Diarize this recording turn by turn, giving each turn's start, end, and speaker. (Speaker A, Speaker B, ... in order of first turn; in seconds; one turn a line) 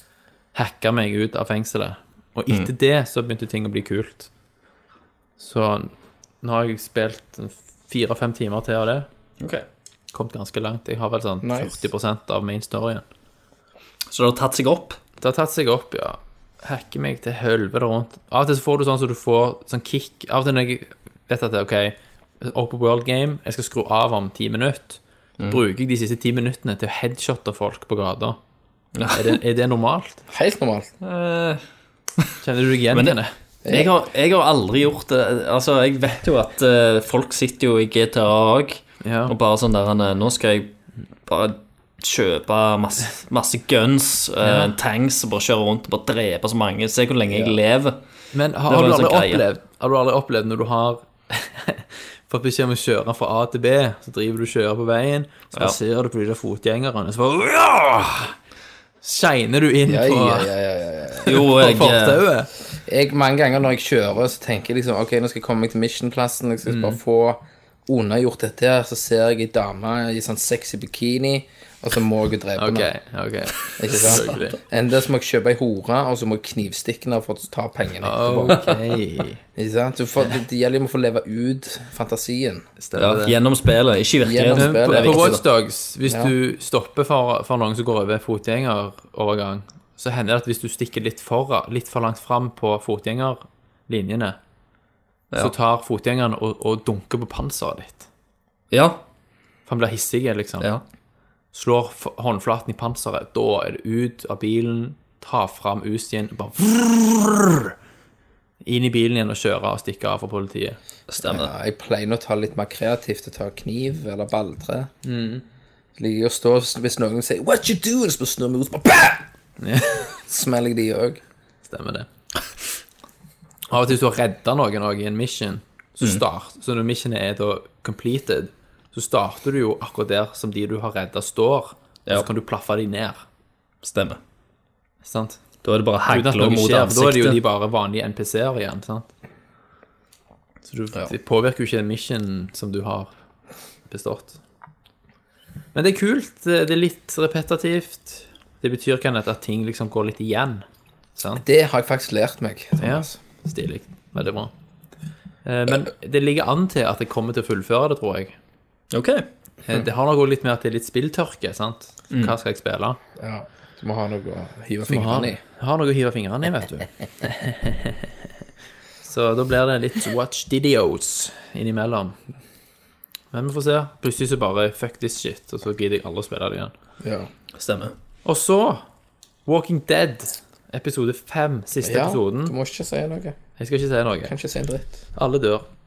Speaker A: 0.5-4.3
Speaker A: 5.4-9.1
Speaker A: 10.1-13.0
Speaker B: 11.4-11.8
Speaker C: 14.1-15.0
Speaker A: 15.2-28.4
Speaker C: 28.9-29.4
Speaker A: 29.1-30.2
Speaker B: 30.3-30.9
Speaker C: 31.0-31.6
Speaker A: 32.4-33.3
Speaker C: 32.9-40.7
Speaker B: 33.6-33.9
Speaker A: 39.0-39.3
Speaker C: 41.2-48.0
Speaker A: 44.4-44.7
Speaker B: 47.3-47.5
Speaker A: 48.3-58.4
Speaker C: 48.7-49.4
Speaker A: 59.0-60.5
Speaker B: 59.9-61.4
Speaker A: 61.2-62.5
Speaker C: 61.2-62.2
Speaker B: 62.7-72.9
Speaker A: 66.7-67.0
Speaker A: 72.6-74.6
Speaker B: 73.8-78.7
Speaker A: 78.0-79.4
Speaker B: 79.5-82.6
Speaker A: 82.8-83.3
Speaker C: 82.9-85.4
Speaker B: 84.2-85.4
Speaker A: 84.5-94.4
Speaker B: 86.0-86.3
Speaker A: 95.3-98.1
Speaker C: 98.7-99.0
Speaker A: 99.7-100.7
Speaker A: 101.5-107.7
Speaker A: 108.6-110.8
Speaker C: 111.1-111.5
Speaker B: 111.2-114.9
Speaker A: 115.0-115.4
Speaker B: 116.0-119.3
Speaker A: 119.6-120.1
Speaker B: 120.1-121.2
Speaker A: 121.6-122.1
Speaker A: 123.7-133.2
Speaker C: 133.8-134.2
Speaker A: 135.0-135.4
Speaker C: 135.6-137.4
Speaker A: 136.1-139.1
Speaker A: 140.7-143.1
Speaker A: 143.9-144.4
Speaker A: 145.7-151.4
Speaker B: 151.4-153.1
Speaker A: 152.8-154.5
Speaker A: 155.4-158.4
Speaker C: 158.9-159.2
Speaker A: 159.7-163.0
Speaker B: 163.2-165.4
Speaker A: 164.8-168.1
Speaker A: 169.0-172.2
Speaker A: 173.3-176.7
Speaker B: 177.0-177.3
Speaker C: 177.6-177.9
Speaker A: 178.2-178.8
Speaker A: 179.4-182.5
Speaker B: 181.8-183.4
Speaker A: 183.6-184.3
Speaker B: 184.2-185.0
Speaker A: 185.1-185.7